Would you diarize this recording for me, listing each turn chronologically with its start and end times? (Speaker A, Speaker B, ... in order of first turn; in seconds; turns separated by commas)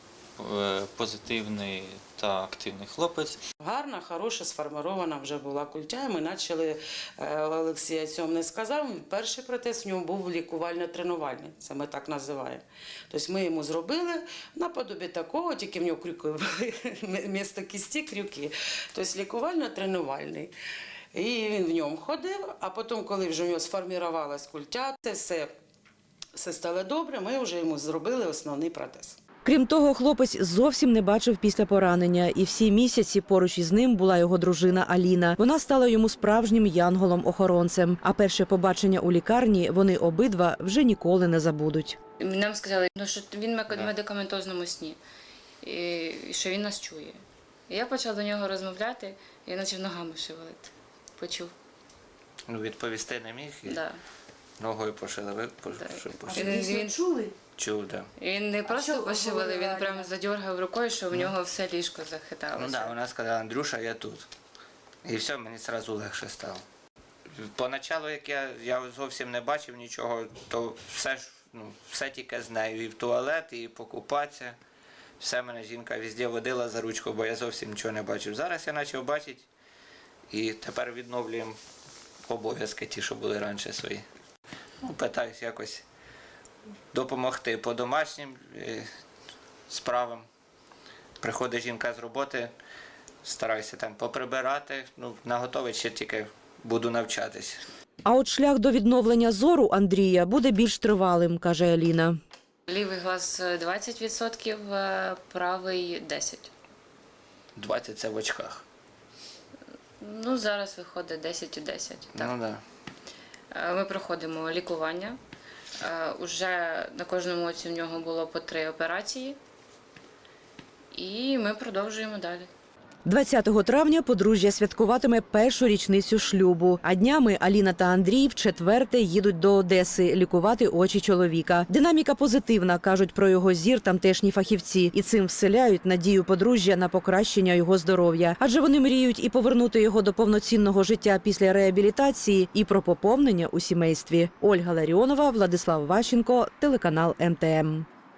Speaker A: 0.4-3.4, Speaker B: 3.6-20.5, Speaker B: 21.1-25.5, Speaker B: 26.3-29.2, Speaker C: 29.4-42.0, Speaker D: 42.2-45.0, Speaker D: 45.6-51.5, Speaker E: 52.5-53.8, Speaker D: 53.6-54.0, Speaker E: 54.6-56.6, Speaker D: 55.8-57.1, Speaker E: 57.6-58.1, Speaker D: 58.2-63.0, Speaker E: 62.5-64.2, Speaker E: 65.0-66.6, Speaker E: 67.3-74.6, Speaker E: 75.2-79.5, Speaker E: 80.3-81.6, Speaker E: 82.2-84.0, Speaker E: 84.8-85.8, Speaker E: 86.9-88.9, Speaker E: 89.7-90.2, Speaker E: 91.2-92.5, Speaker E: 93.2-97.6, Speaker C: 98.0-102.2, Speaker D: 102.7-106.5, Speaker E: 107.5-108.6, Speaker D: 110.0-112.4, Speaker E: 112.1-112.6, Speaker D: 113.5-115.2, Speaker D: 115.8-119.4, Speaker D: 120.9-122.5, Speaker C: 123.0-147.9